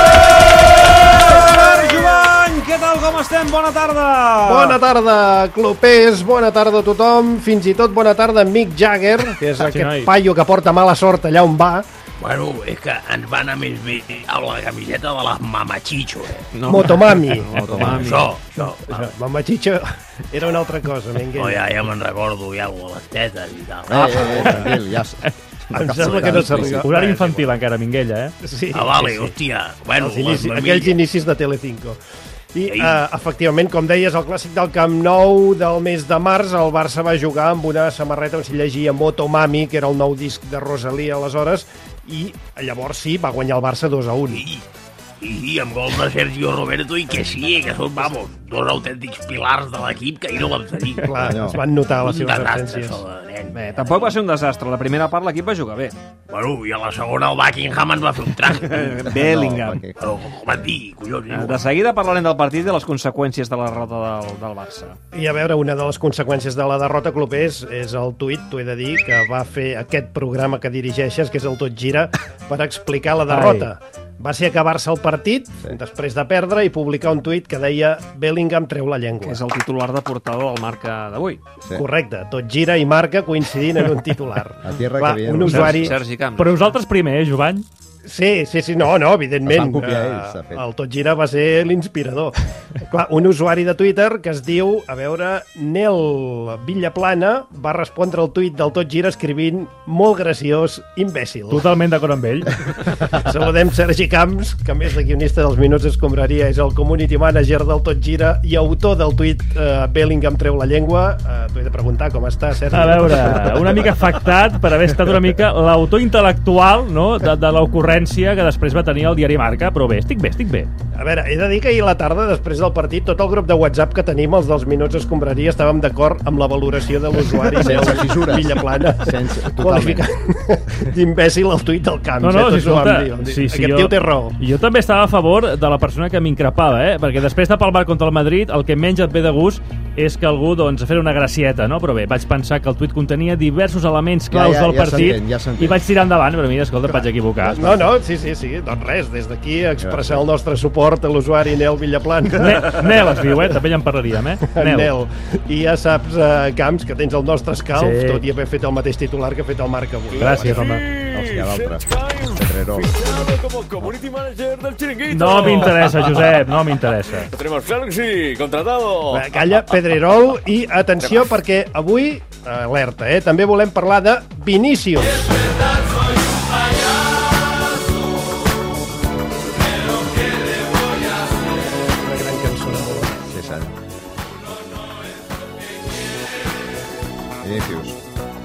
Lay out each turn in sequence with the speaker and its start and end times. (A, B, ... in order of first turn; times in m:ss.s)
0:01.3-0:04.3 A
0:04.0-0:04.7 B
0:04.4-0:11.8 C
0:09.6-0:10.1 B
0:12.2-0:16.5 D
0:16.6-0:18.0 A
0:16.7-0:17.6 C
0:17.6-0:18.1 E
0:17.9-0:18.3 B
0:18.0-0:19.1 D
0:18.8-0:21.6 C
0:21.3-0:24.5 D
0:23.9-0:27.0 E
0:24.0-0:24.8 B
0:25.7-0:27.5 C
0:26.8-0:28.4 B
0:28.4-0:29.4 C
0:28.7-0:31.0 D
0:30.0-0:32.0 C
0:32.5-0:44.4 C
0:32.6-0:33.0 D
0:44.3-0:44.6 D
0:45.2-0:51.1 D
0:51.0-0:53.0 C
0:51.1-0:51.6 E
0:52.0-0:54.2 D
0:53.5-0:56.0 A
0:56.3-0:58.7 D
0:58.6-0:59.8 A
0:59.0-1:00.0 E
1:00.0-1:01.6 D
1:01.3-1:05.0 A
1:05.1-1:19.4 C
1:13.3-1:13.7 B
1:19.2-1:21.4 A
1:21.8-1:26.0 C
1:24.6-1:25.9 E
1:25.7-1:26.7 A
1:26.3-1:27.6 B
1:28.0-1:41.6 C
1:29.4-1:30.6 E
1:41.5-1:42.7 B
1:43.2-1:53.8 C
1:52.7-2:00.7 B
2:00.9-2:14.4 C
2:07.6-2:10.0 E
2:12.2-2:27.6 B
2:24.3-2:25.8 E
2:26.8-2:33.1 C
2:29.8-2:30.2 E
2:32.4-2:34.9 B
2:34.5-2:40.5 C
2:37.7-2:38.2 B
2:40.1-2:46.4 F
2:40.2-2:40.8 B
2:41.1-2:43.0 E
2:45.1-2:47.3 B
2:47.3-2:51.4 F
2:49.1-2:55.3 C
3:02.0-3:03.1 C
3:03.3-3:03.8 E
3:07.4-3:08.0 E